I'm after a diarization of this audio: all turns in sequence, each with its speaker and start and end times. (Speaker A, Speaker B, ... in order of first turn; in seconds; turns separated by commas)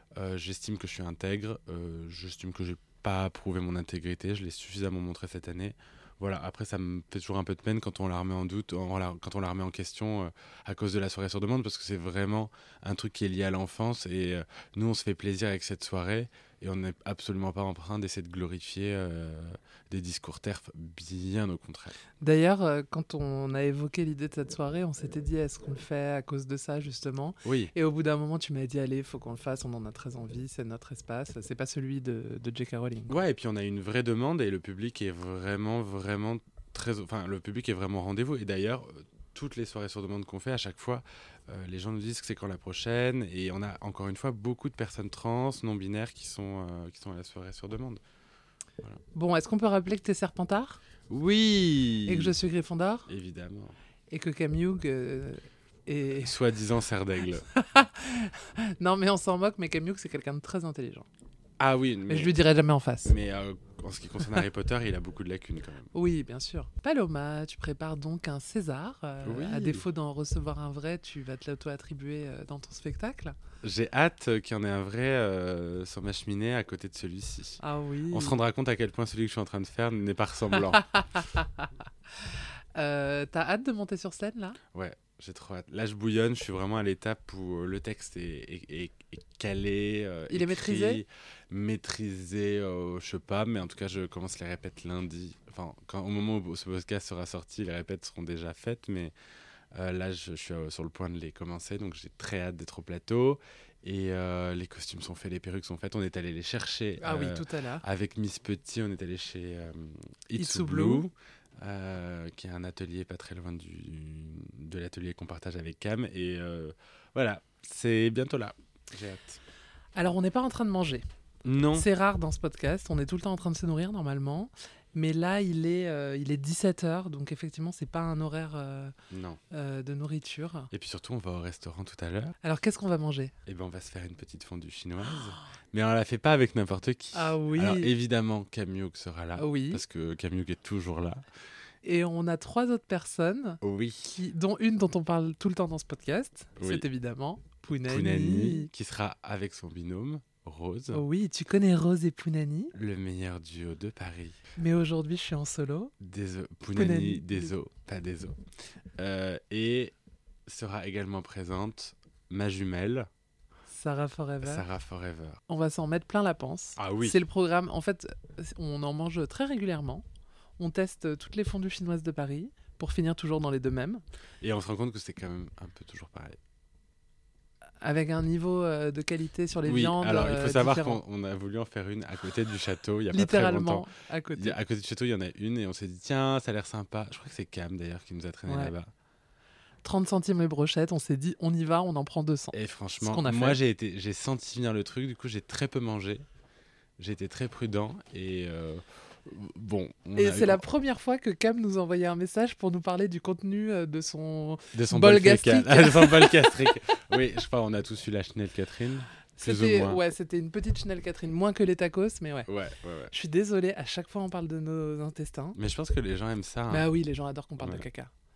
Speaker A: 0.1-22.0, Speaker B: 22.2-33.1, Speaker A: 27.4-27.7, Speaker A: 33.1-48.0, Speaker B: 49.1-50.8, Speaker A: 51.1-52.3, Speaker B: 52.0-53.1, Speaker A: 53.1-53.7, Speaker B: 54.1-56.3, Speaker A: 56.1-57.5, Speaker B: 57.5-61.0, Speaker A: 61.6-62.4, Speaker B: 62.1-63.1, Speaker A: 63.0-65.9, Speaker B: 65.9-73.3, Speaker A: 69.2-69.8, Speaker A: 73.6-80.8, Speaker B: 77.6-78.4, Speaker B: 80.8-81.6, Speaker B: 82.2-84.6, Speaker A: 84.7-99.1, Speaker B: 90.3-91.0, Speaker A: 99.7-119.4, Speaker B: 107.0-107.8, Speaker B: 110.3-111.0, Speaker B: 119.9-121.0, Speaker A: 121.4-121.9, Speaker B: 121.7-128.9, Speaker A: 129.1-129.4, Speaker B: 129.5-130.7, Speaker A: 130.7-132.3, Speaker B: 132.4-133.3, Speaker A: 133.4-141.2, Speaker B: 137.1-137.9, Speaker B: 139.3-139.8, Speaker B: 141.8-148.7, Speaker A: 143.6-144.1, Speaker A: 146.6-146.8, Speaker A: 147.9-151.0, Speaker B: 150.9-152.7, Speaker A: 152.7-154.4, Speaker B: 154.6-155.9, Speaker A: 156.0-158.4, Speaker B: 156.7-157.5, Speaker A: 159.0-159.9, Speaker A: 160.4-163.1, Speaker B: 163.7-164.6, Speaker A: 164.4-165.4, Speaker B: 165.5-170.0, Speaker A: 166.8-167.2, Speaker B: 170.6-174.0, Speaker A: 174.4-176.4, Speaker B: 177.8-181.0, Speaker A: 179.7-188.9, Speaker B: 183.1-184.6, Speaker B: 188.4-188.7, Speaker B: 189.8-193.6, Speaker A: 192.5-196.2, Speaker A: 197.0-200.6, Speaker B: 200.2-206.7, Speaker A: 204.7-210.0, Speaker B: 209.4-212.5, Speaker A: 212.5-213.1, Speaker B: 213.1-215.6, Speaker A: 215.5-216.9, Speaker B: 216.7-218.1